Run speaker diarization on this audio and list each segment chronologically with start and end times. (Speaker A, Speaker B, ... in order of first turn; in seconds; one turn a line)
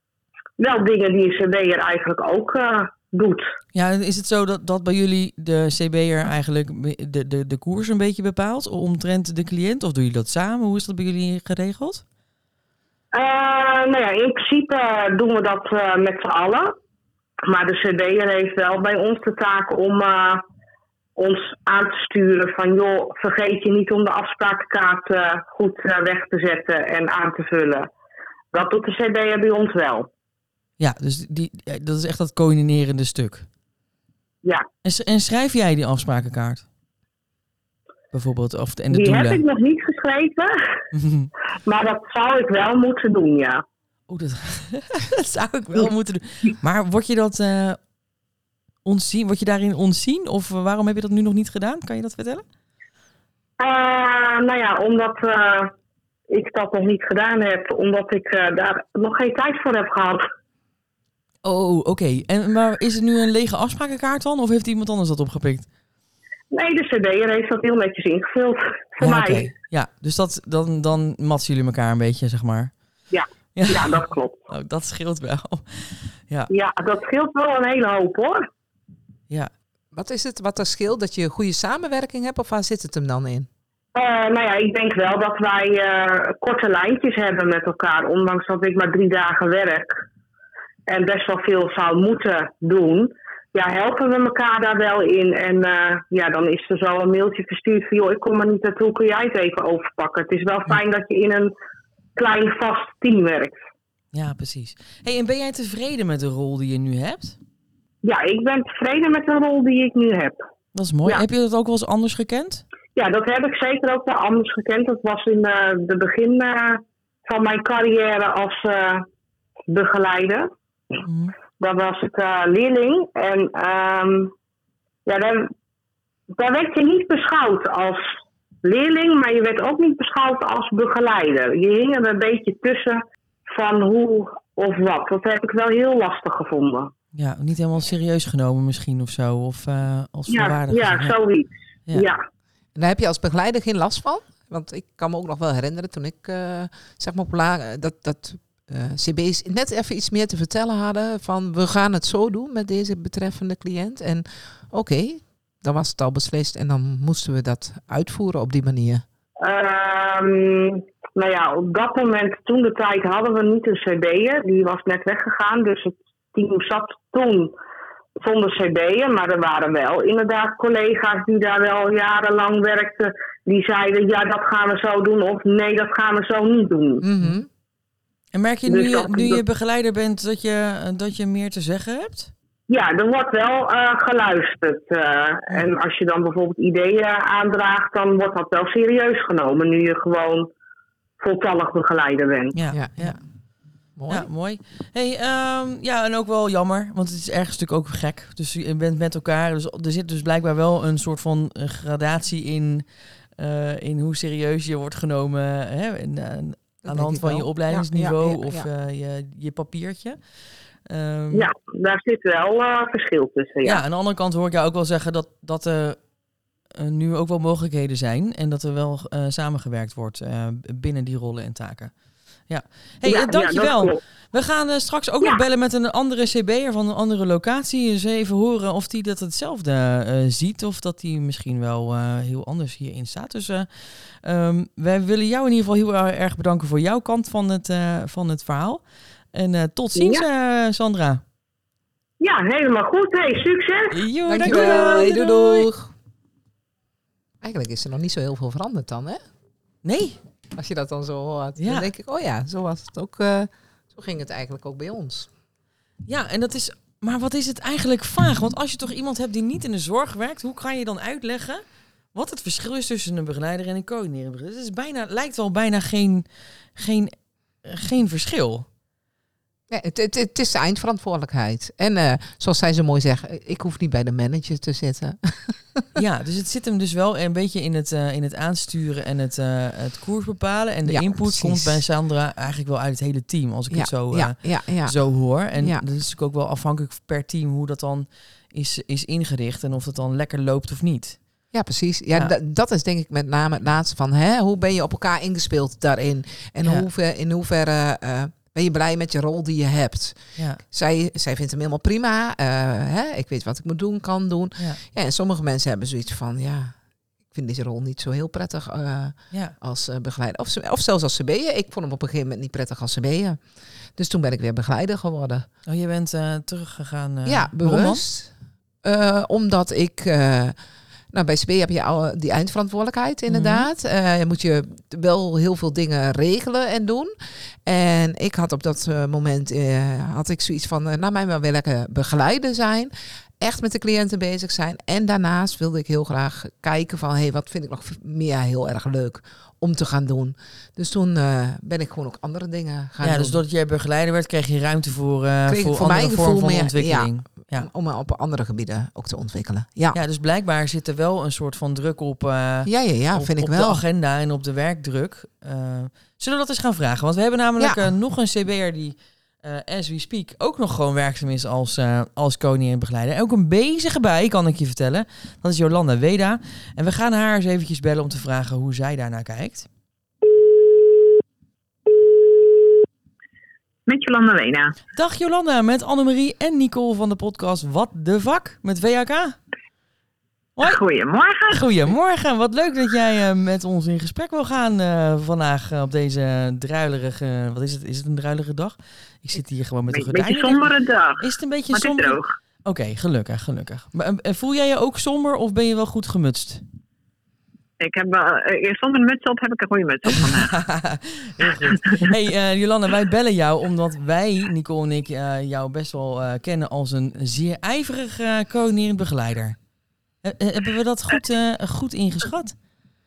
Speaker A: 0.6-3.4
Speaker B: 3.7-12.0
Speaker A: 13.1-16.7
Speaker A: 17.5-20.4
Speaker A: 21.2-27.9
Speaker A: 28.5-30.1
Speaker B: 30.8-33.5
Speaker B: 34.8-36.6
Speaker B: 38.1-39.4
Speaker A: 38.9-40.5
Speaker B: 40.9-41.3
Speaker A: 41.6-43.6
Speaker B: 44.1-47.8
Speaker B: 48.8-52.4
Speaker A: 53.6-55.7
Speaker A: 56.3-60.2
Speaker B: 61.4-65.7
Speaker A: 66.5-69.5
Speaker B: 69.0-72.7
Speaker A: 73.1-74.5
Speaker B: 73.5-76.5
Speaker A: 76.5-78.5
Speaker C: 79.9-83.5
Speaker A: 83.9-90.0
Speaker A: 90.9-101.5
Speaker A: 102.2-103.6
Speaker B: 104.1-107.4
Speaker A: 108.0-110.4
Speaker B: 110.7-112.6
Speaker A: 113.0-119.0
Speaker A: 119.7-120.5
Speaker B: 121.0-121.3
Speaker A: 121.6-124.3
Speaker A: 125.0-125.5
Speaker A: 126.4-128.1
Speaker A: 128.6-136.9
Speaker B: 137.1-141.1
Speaker A: 140.3-142.2
Speaker C: 142.8-159.0
Speaker A: 159.4-167.5
Speaker A: 168.2-177.0
Speaker C: 177.0-177.5
Speaker B: 178.3-182.3
Speaker A: 178.7-179.4
Speaker A: 182.7-190.5
Speaker A: 191.2-192.5
Speaker B: 192.5-193.2
Speaker C: 192.7-193.2
Speaker C: 194.0-194.3
Speaker B: 194.1-210.2
Speaker C: 206.8-208.7
Speaker B: 210.8-211.5
Speaker A: 211.3-213.8
Speaker B: 213.6-216.0
Speaker B: 216.8-221.9
Speaker B: 222.5-241.2
Speaker A: 223.0-224.0
Speaker A: 239.9-240.2
Speaker A: 242.2-245.2
Speaker B: 243.9-245.6
Speaker C: 244.3-245.9
Speaker C: 247.4-249.2
Speaker B: 249.8-250.2
Speaker C: 250.6-255.3
Speaker B: 251.6-251.9
Speaker B: 256.0-268.6
Speaker C: 269.7-276.0
Speaker B: 275.9-291.2
Speaker C: 280.9-281.8
Speaker C: 283.7-285.0
Speaker C: 285.6-285.8
Speaker C: 291.5-306.7
Speaker C: 307.3-313.4
Speaker C: 313.9-315.4
Speaker B: 315.6-318.0
Speaker C: 317.2-318.3
Speaker C: 318.8-320.6
Speaker C: 321.1-327.1
Speaker B: 323.3-323.7
Speaker C: 327.6-343.4
Speaker B: 343.0-347.7
Speaker C: 345.5-350.0
Speaker B: 349.9-369.7
Speaker C: 352.6-353.8
Speaker D: 373.9-374.8
Speaker B: 374.9-379.4
Speaker B: 380.6-380.8
Speaker D: 380.6-381.6
Speaker B: 381.5-396.6
Speaker D: 389.9-392.3
Speaker D: 397.8-400.6
Speaker B: 400.1-409.6
Speaker D: 401.4-402.0
Speaker B: 410.2-412.6